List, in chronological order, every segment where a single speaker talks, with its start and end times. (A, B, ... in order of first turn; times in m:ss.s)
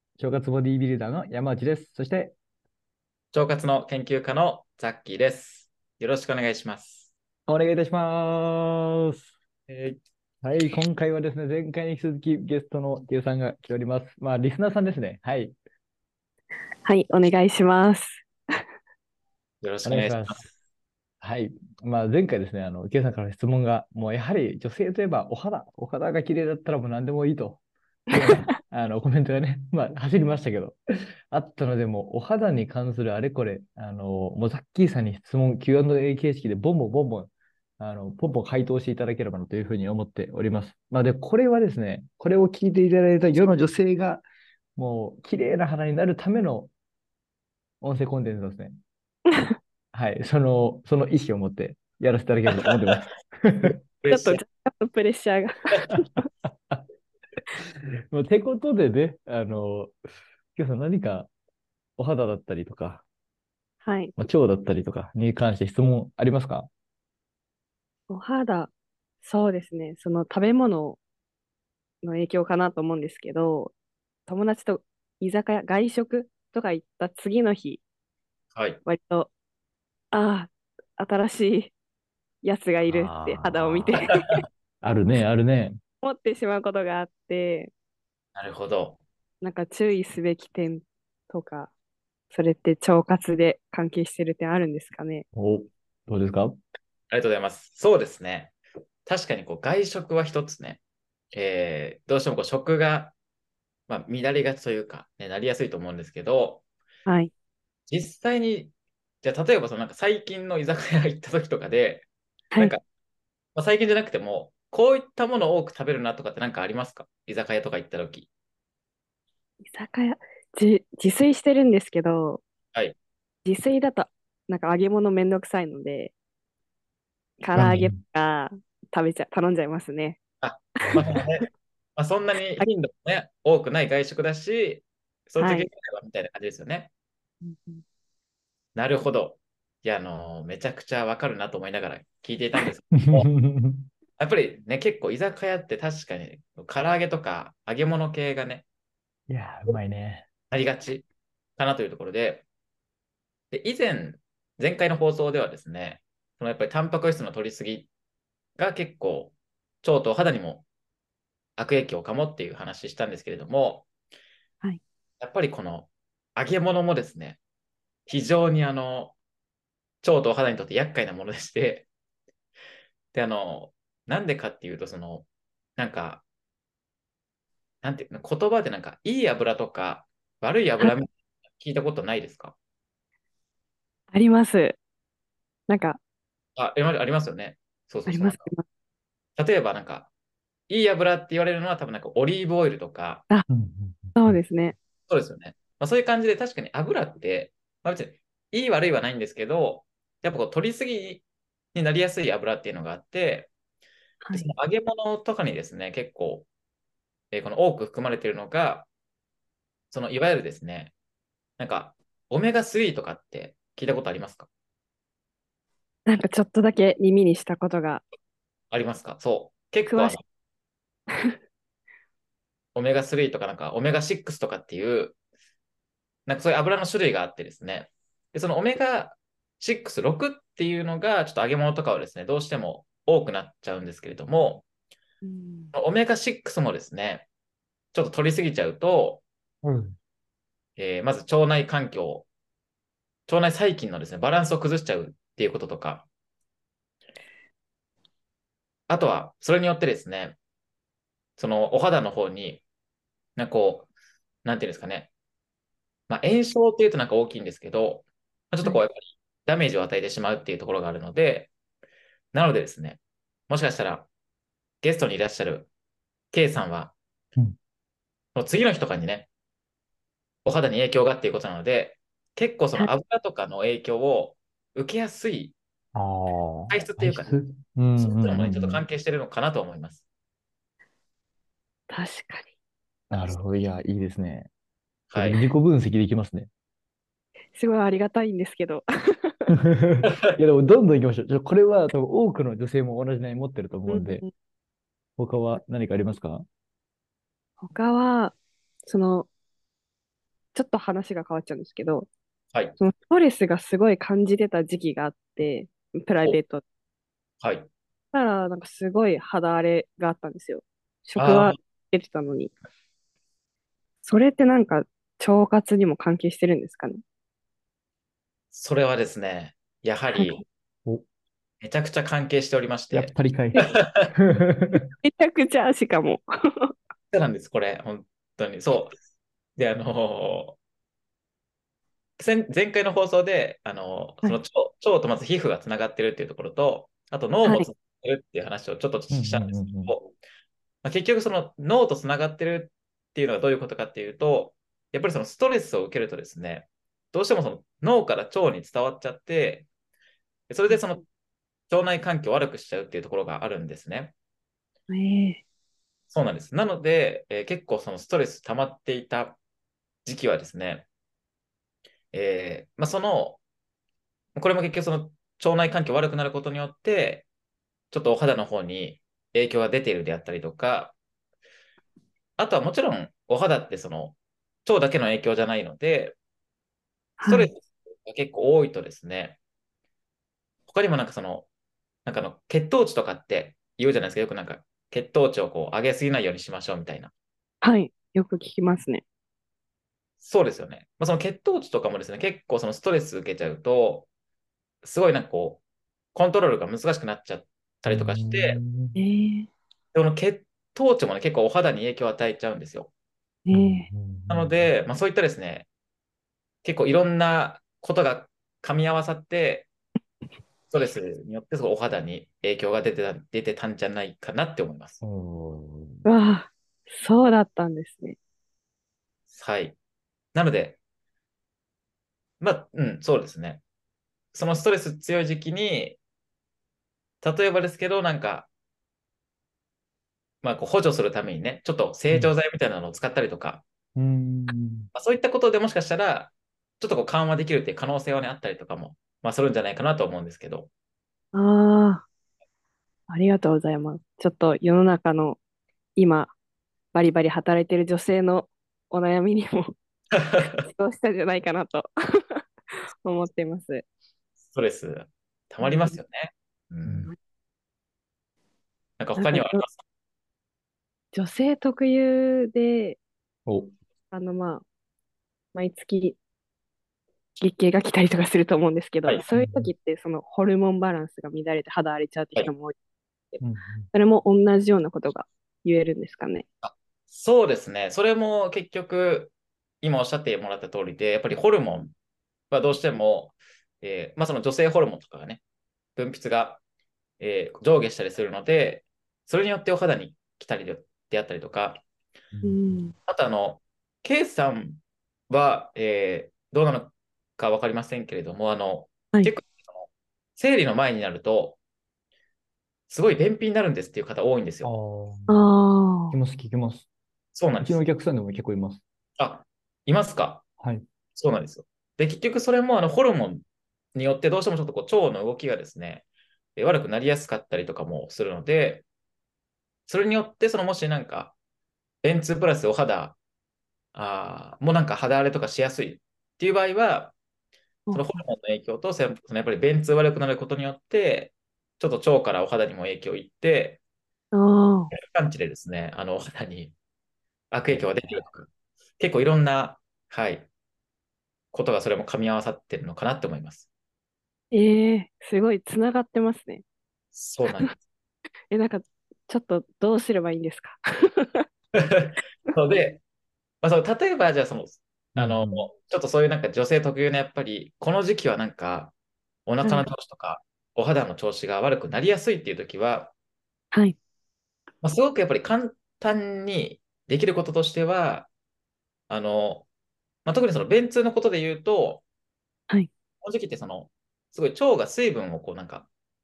0:00.2-0:02.3 A
0:03.3-0:07.1 B
0:07.5-0:09.3 A
0:09.7-0:10.0 B
0:10.4-0:15.6 A
0:16.8-0:18.2 C
0:19.6-0:20.4 B
0:19.8-0:20.6 A
0:21.2-0:30.8 A
0:31.3-0:44.2 A
0:44.8-0:46.7 A
0:47.8-0:48.7 A
0:49.9-0:53.7 A
0:53.8-0:54.4 B
0:54.1-0:56.3 C
0:58.1-0:59.9 A
1:00.6-1:01.3 A
1:02.0-1:03.0 A
1:03.8-1:04.1 C
1:04.2-1:06.7 A
1:08.1-1:08.7 C
1:09.2-1:11.0 C
1:12.0-1:13.7 C
1:14.3-1:17.8 C
1:18.5-1:18.8 B
1:18.8-1:19.3 C
1:20.1-1:21.7 C
1:22.4-1:24.4 C
1:22.9-1:24.1 A
1:24.8-1:25.8 A
1:26.0-1:27.7 C
1:28.4-1:29.0 B
1:29.4-1:31.7 C
1:32.3-1:35.2 C
1:35.3-1:36.6 A
1:37.1-1:38.5 B
1:39.0-1:40.8 B
1:41.3-1:43.1 B
1:43.9-1:46.6 B
1:47.0-1:47.3 C
1:47.9-1:48.7 B
1:49.2-1:52.8 B
1:53.5-1:58.3 B
1:59.6-2:02.4 C
2:03.4-2:06.1 C
2:07.4-2:10.2 C
2:07.5-2:08.0 A
2:10.4-2:16.9 B
2:15.4-2:15.7 C
2:17.4-2:17.8 C
2:18.7-2:23.3 B
2:23.0-2:23.8 A
2:24.2-2:28.6 B
2:29.3-2:30.2 A
2:30.5-2:31.0 B
2:31.6-2:32.4 B
2:33.5-2:37.9 B
2:38.6-2:40.6 B
2:41.6-2:43.9 B
2:45.2-2:47.4 B
2:48.1-2:49.1 B
2:50.0-2:51.9 B
2:53.1-2:56.2 B
2:57.8-3:02.5 B
3:04.1-3:04.8 C
3:05.7-3:06.0 C
3:06.6-3:08.5 B
3:08.1-3:08.6 C
3:09.4-3:10.1 B
3:10.7-3:13.2 B
3:13.5-3:14.4 A
3:14.2-3:14.8 C
3:15.1-3:21.2 B
3:21.7-3:23.5 B
3:24.2-3:24.5 C
3:24.3-3:26.5 B
3:27.3-3:28.9 B
3:29.9-3:30.9 B
3:31.6-3:34.5 B
3:36.0-3:38.0 C
3:38.7-3:40.2 B
3:39.9-3:40.2 C
3:42.7-3:45.2 B
3:46.3-3:54.6 B
3:55.2-3:55.7 C
3:55.7-3:57.3 B
3:57.9-3:59.2 B
3:59.6-3:59.9 A
4:00.8-4:02.3 B
4:03.3-4:06.0 B
4:08.9-4:10.4 B
4:11.4-4:12.6 B
4:13.4-4:13.9 B
4:14.4-4:15.1 B
4:16.1-4:21.5 B
4:22.3-4:23.0 B
4:23.5-4:24.1 B
4:24.8-4:25.7 B
4:26.3-4:26.9 B
4:28.3-4:29.3 B
4:30.4-4:35.5 B
4:35.9-4:38.8 A
4:36.7-4:37.3 B
4:38.0-4:40.0 B
4:41.9-4:42.5 C
4:43.1-4:44.5 A
4:45.1-4:45.4 B
4:45.1-4:46.5 A
4:47.5-4:49.5 C
4:49.5-4:54.2 A
4:53.9-4:54.3 C
4:55.2-4:56.4 A
4:57.6-4:59.3 C
5:00.5-5:02.1 C
5:02.8-5:06.6 C
5:07.4-5:07.7 B
5:08.1-5:12.5 C
5:11.2-5:11.5 B
5:14.0-5:17.0 C
5:18.5-5:20.4 B
5:20.1-5:20.4 C
5:21.6-5:23.9 B
5:22.9-5:24.8 A
5:25.0-5:26.7 C
5:27.1-5:28.9 B
5:29.6-5:30.6 B
5:32.2-5:40.2 B
5:39.1-5:40.0 A
5:40.8-5:49.7 B
5:50.5-5:51.0 B
5:51.7-5:54.1 B
5:54.9-5:55.4 C
5:56.1-5:59.4 B
6:00.0-6:00.8 B
6:02.1-6:03.4 B
6:04.4-6:07.3 B
6:07.9-6:10.9 B
6:12.4-6:16.2 B
6:17.2-6:17.5 C
6:17.2-6:19.4 B
6:20.7-6:21.5 B
6:22.0-6:27.1 B
6:27.6-6:29.0 C
6:30.2-6:34.1 B
6:34.8-6:35.6 B
6:36.1-6:38.6 B
6:37.9-6:39.0 A
6:39.0-6:39.5 C
6:39.9-6:42.9 B
6:43.4-6:43.9 C
6:43.5-6:44.7 A
6:44.3-6:45.7 B
6:46.6-6:49.7 B
6:50.7-6:55.0 B
6:55.0-6:56.0 A
6:56.0-6:58.2 C
6:59.3-6:59.8 B
7:00.3-7:00.8 B
7:02.4-7:03.6 B
7:04.3-7:06.0 B
7:07.2-7:08.5 B
7:10.4-7:13.6 B
7:14.0-7:14.9 A
7:14.9-7:20.7 B
7:21.3-7:22.0 C
7:23.1-7:25.4 C
7:26.0-7:26.3 C
7:26.9-7:29.7 C
7:30.6-7:32.4 C
7:33.0-7:33.8 C
7:34.5-7:37.1 B
7:35.6-7:36.0 C
7:39.0-7:39.8 B
7:39.2-7:39.6 C
7:41.1-7:43.0 C
7:43.4-7:43.7 A
7:44.1-7:44.6 C
7:45.5-7:46.2 C
7:47.4-7:52.8 C
7:49.3-7:49.7 A
7:53.4-7:53.9 A
7:53.9-7:56.4 C
7:56.6-8:01.9 B
8:02.5-8:05.4 B
8:06.0-8:06.6 B
8:07.2-8:11.8 B
8:12.3-8:12.6 A
8:12.4-8:12.9 C
8:13.1-8:21.6 B
8:22.9-8:24.7 B
8:24.6-8:25.5 A
8:25.3-8:26.2 C
8:26.1-8:26.9 A
8:27.3-8:27.8 B
8:27.6-8:28.8 A
8:29.2-8:30.4 B
8:31.2-8:33.4 B
8:33.9-8:36.0 B
8:36.6-8:38.8 B
8:39.9-8:41.3 B
8:42.0-8:43.2 B
8:43.9-8:47.1 B
8:47.9-8:48.2 C
8:47.9-8:53.8 B
8:54.3-8:54.9 C
8:54.9-8:56.7 B
8:57.5-9:00.5 B
8:57.7-8:58.2 A
9:01.5-9:03.7 B
9:04.5-9:06.6 C
9:07.1-9:07.8 B
9:08.5-9:11.4 C
9:11.8-9:13.0 B
9:13.6-9:18.9 B
9:15.2-9:15.7 A
9:19.4-9:23.1 B
9:19.6-9:19.9 C
9:23.7-9:24.0 C
9:24.8-9:28.3 B
9:29.1-9:29.7 B
9:30.2-9:32.0 B
9:33.2-9:35.9 B